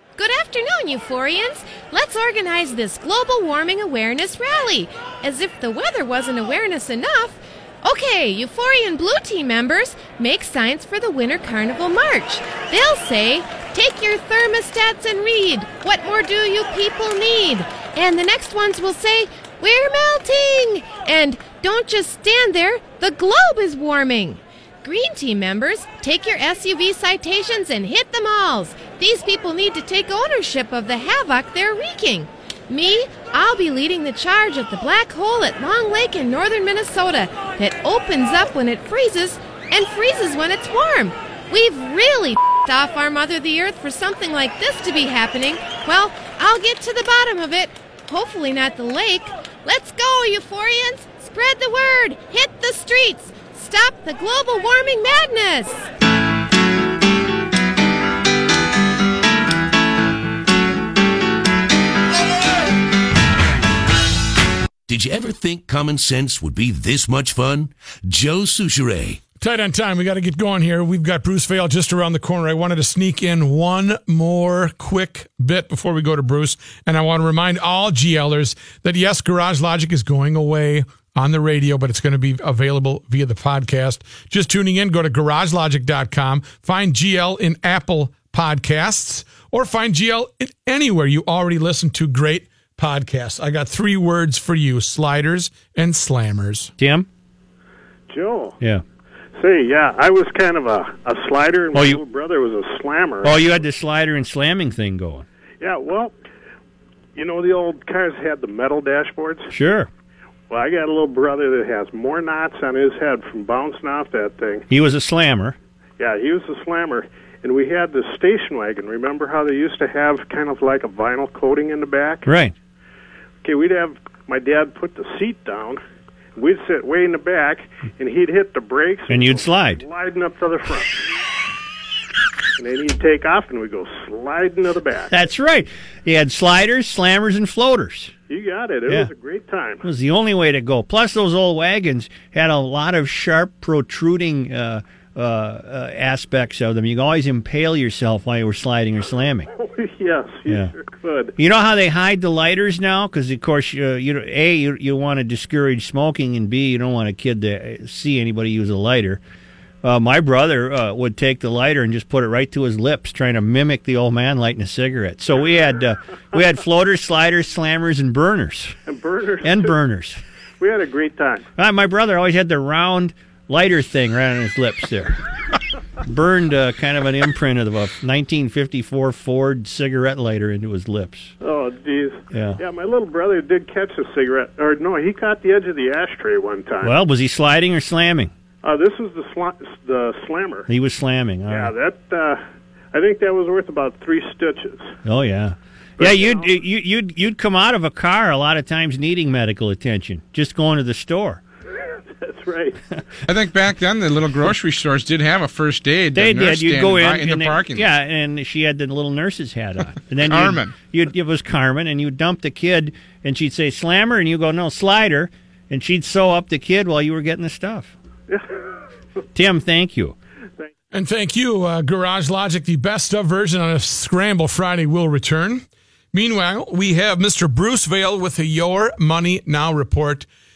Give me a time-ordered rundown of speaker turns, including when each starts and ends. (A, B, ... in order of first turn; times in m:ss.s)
0:00.2-0:55.8 A
1:04.9-1:09.2 B
1:09.4-1:36.7 C
1:36.8-1:37.1 D
1:38.1-1:38.6 E
1:39.4-1:43.4 E
1:41.7-1:42.0 D
1:43.2-1:45.3 D
1:45.6-1:46.1 E
1:47.2-1:49.5 E
1:49.5-1:49.9 D
1:50.5-1:54.7 E
1:54.7-1:55.6 D
1:56.0-2:02.3 E
2:02.3-2:02.5 D
2:03.4-2:05.8 E
2:06.4-2:11.0 E
2:09.1-2:09.8 D
2:12.6-2:15.1 E
2:15.1-2:18.1 D
2:18.3-2:19.8 E
2:19.8-2:29.5 D
2:29.6-2:31.3 E
2:30.5-2:30.8 D
2:31.4-2:39.2 D
2:39.8-2:48.8 D
2:48.9-2:49.7 E
2:49.4-2:50.2 D
2:50.6-2:51.4 E
2:51.6-2:55.2 D
2:56.0-3:01.3 D
3:01.4-3:07.0 E
3:02.3-3:02.6 D
3:06.8-3:08.3 D
3:08.6-3:10.7 E
3:10.7-3:11.7 D
3:11.5-3:14.9 E
3:15.0-3:21.4 D
3:16.0-3:16.5 E
3:22.2-3:22.8 E
3:23.3-3:27.9 F
3:26.1-3:37.9 D
3:30.2-3:30.8 F
3:39.3-3:40.2 D
3:40.9-3:50.3 C